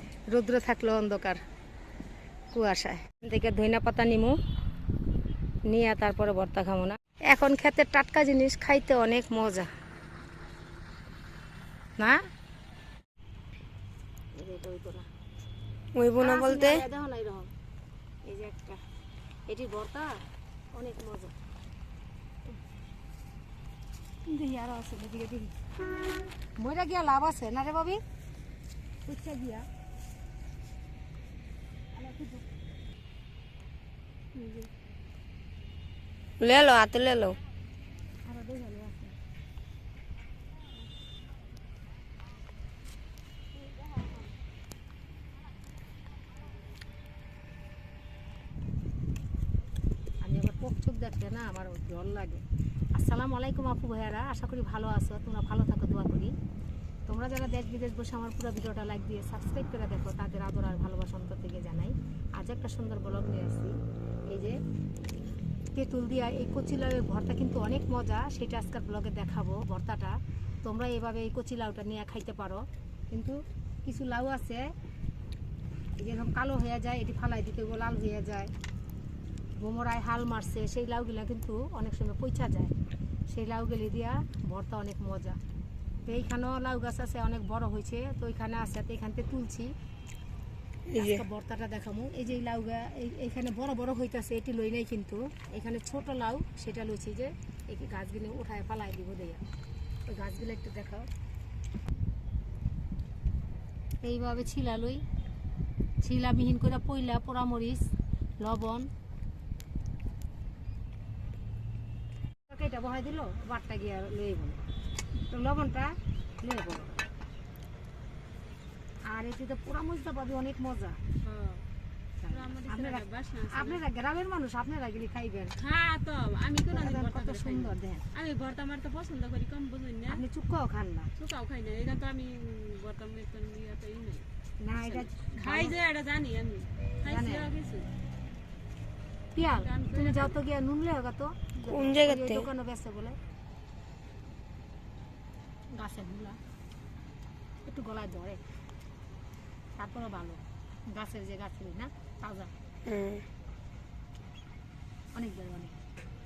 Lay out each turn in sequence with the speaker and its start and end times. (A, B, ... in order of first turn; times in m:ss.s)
0:00.3-0:01.4 A
0:02.5-0:04.4 A
0:05.7-0:09.7 A
0:14.4-0:15.1 A
0:16.0-0:16.8 B
0:16.2-0:17.5 A
0:18.3-0:18.8 A
0:19.5-0:20.2 A
0:20.7-0:21.3 A
0:24.3-0:25.5 A
0:26.6-0:28.0 A
0:29.0-0:29.7 A
0:31.9-0:32.4 A
0:34.4-0:34.7 C
0:36.4-0:37.4 B
0:38.2-0:39.2 A
0:50.2-0:56.3 A
0:57.1-1:03.8 A
1:04.3-1:04.6 A
1:05.8-1:14.7 A
1:16.0-1:18.5 A
1:19.6-1:22.7 A
1:23.3-1:25.4 A
1:26.1-1:29.7 A
1:30.9-1:31.2 B
1:30.9-1:39.4 A
1:40.1-1:41.1 A
1:44.0-1:45.0 A
1:46.0-1:48.9 A
1:52.5-1:54.6 A
1:55.3-1:57.0 A
1:59.1-2:01.0 A
2:01.2-2:01.6 C
2:02.2-2:05.6 A
2:02.3-2:03.8 C
2:05.6-2:10.2 C
2:06.7-2:08.1 A
2:10.1-2:11.1 A
2:11.2-2:14.3 C
2:14.6-2:15.8 A
2:14.8-2:17.9 C
2:17.1-2:17.5 A
2:19.3-2:23.2 A
2:19.6-2:20.4 C
2:21.6-2:22.5 B
2:25.7-2:26.4 A
2:27.6-2:28.4 A
2:29.8-2:32.5 A
2:32.9-2:33.2 B
2:35.1-2:35.7 A